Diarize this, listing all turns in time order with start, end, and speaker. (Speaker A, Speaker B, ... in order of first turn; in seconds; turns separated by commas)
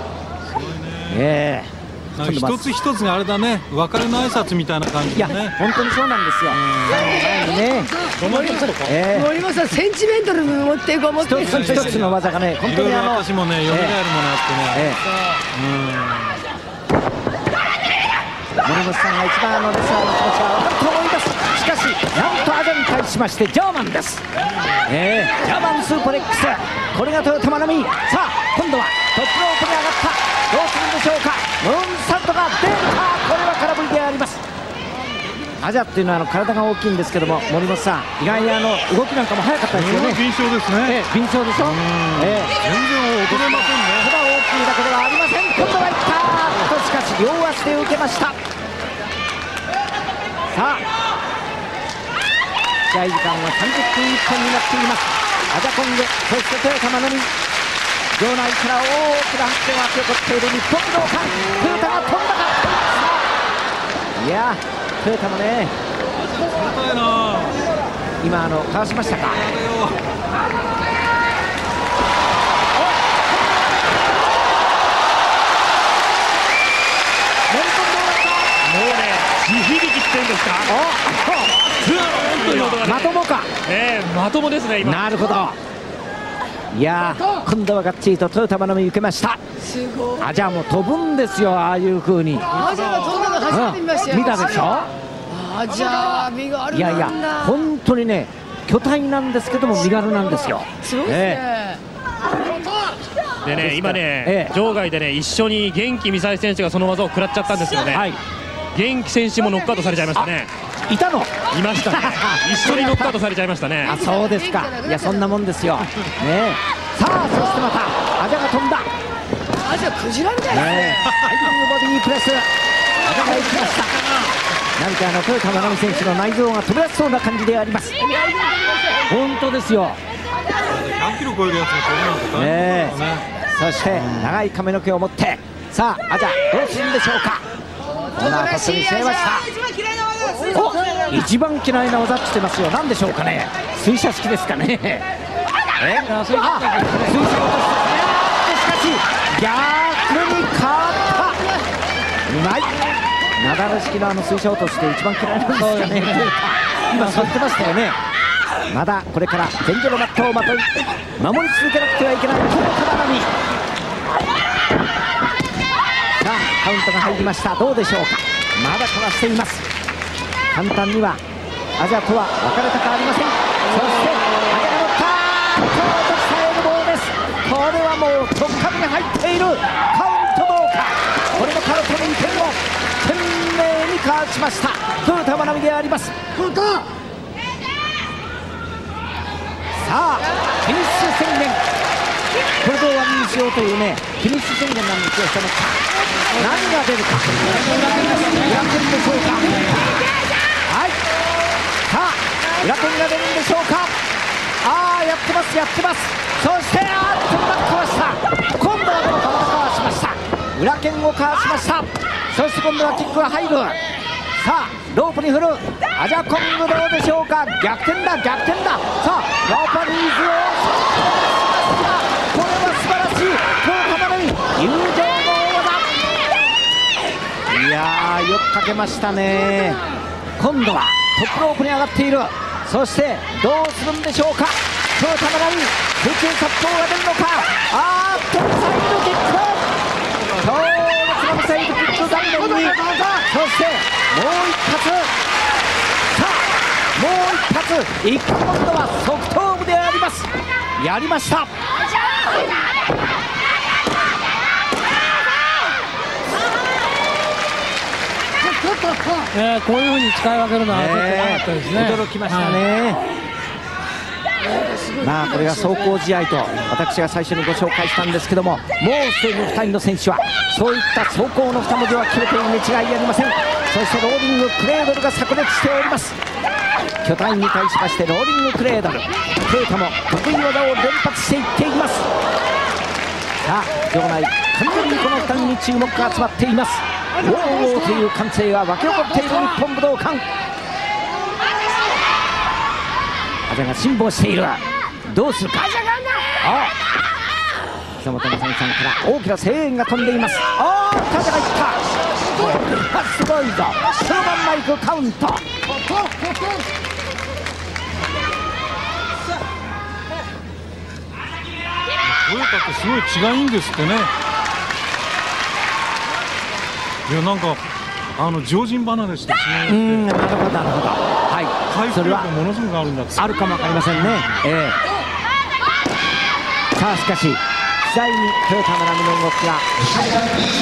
Speaker A: 0.5-1.2, Speaker B: 1.1-2.6, Speaker A: 2.2-5.5, Speaker B: 5.2-8.1, Speaker A: 6.5-7.1, Speaker C: 8.2-9.0, Speaker D: 8.2-11.5, Speaker B: 8.8-9.3, Speaker B: 11.2-13.9, Speaker A: 11.3-14.9, Speaker B: 14.7-15.0, Speaker A: 15.5-16.4, Speaker B: 18.6-24.2, Speaker B: 24.9-34.4, Speaker B: 35.6-40.2, Speaker A: 39.7-41.0, Speaker B: 40.8-42.5, Speaker A: 41.6-44.1, Speaker B: 43.3-48.4, Speaker B: 50.5-50.8, Speaker B: 52.9-57.3, Speaker B: 58.1-63.2, Speaker B: 64.2-65.7, Speaker A: 66.3-67.7, Speaker B: 68.2-69.5, Speaker A: 69.5-70.0, Speaker B: 77.5-78.6, Speaker C: 78.6-80.7, Speaker B: 80.7-83.5, Speaker C: 81.8-85.0, Speaker B: 84.8-85.6, Speaker B: 86.7-89.4, Speaker D: 89.7-90.2, Speaker B: 90.2-92.6, Speaker D: 92.5-97.6, Speaker B: 93.5-94.9, Speaker B: 96.7-101.4, Speaker D: 100.8-101.8, Speaker C: 103.4-108.1, Speaker B: 103.6-104.5, Speaker B: 107.9-108.2, Speaker C: 108.7-110.5, Speaker B: 110.8-113.2, Speaker C: 111.5-114.0, Speaker B: 113.8-118.9, Speaker D: 113.9-115.3, Speaker D: 119.6-121.1, Speaker B: 120.5-122.5, Speaker B: 123.0-124.0, Speaker B: 124.8-128.0, Speaker B: 129.1-130.0, Speaker A: 130.7-133.2, Speaker B: 132.3-133.0, Speaker B: 133.5-137.4, Speaker D: 138.1-139.0, Speaker B: 138.1-139.5, Speaker B: 140.5-145.1, Speaker B: 145.8-151.5, Speaker E: 146.0-147.3, Speaker B: 152.3-152.7, Speaker B: 153.4-158.0, Speaker E: 155.5-156.3, Speaker E: 156.9-157.3, Speaker B: 158.7-163.3, Speaker B: 166.2-169.6, Speaker B: 170.5-171.2, Speaker B: 171.8-186.1, Speaker B: 189.8-191.6, Speaker B: 192.6-199.8, Speaker E: 197.5-198.5, Speaker B: 200.7-201.0, Speaker B: 201.9-203.9, Speaker B: 204.6-213.8, Speaker B: 214.4-225.9, Speaker B: 227.5-229.8, Speaker B: 230.4-239.7, Speaker B: 240.3-245.1, Speaker B: 246.1-251.5, Speaker E: 259.3-262.6, Speaker B: 260.7-263.0, Speaker D: 264.4-265.9, Speaker B: 265.0-276.1, Speaker B: 277.0-282.1, Speaker B: 283.4-290.2, Speaker B: 293.5-296.7, Speaker B: 298.0-305.4, Speaker A: 312.0-314.1, Speaker A: 317.1-320.1, Speaker B: 319.7-322.3, Speaker A: 321.7-323.9, Speaker B: 323.1-324.8, Speaker B: 326.8-329.9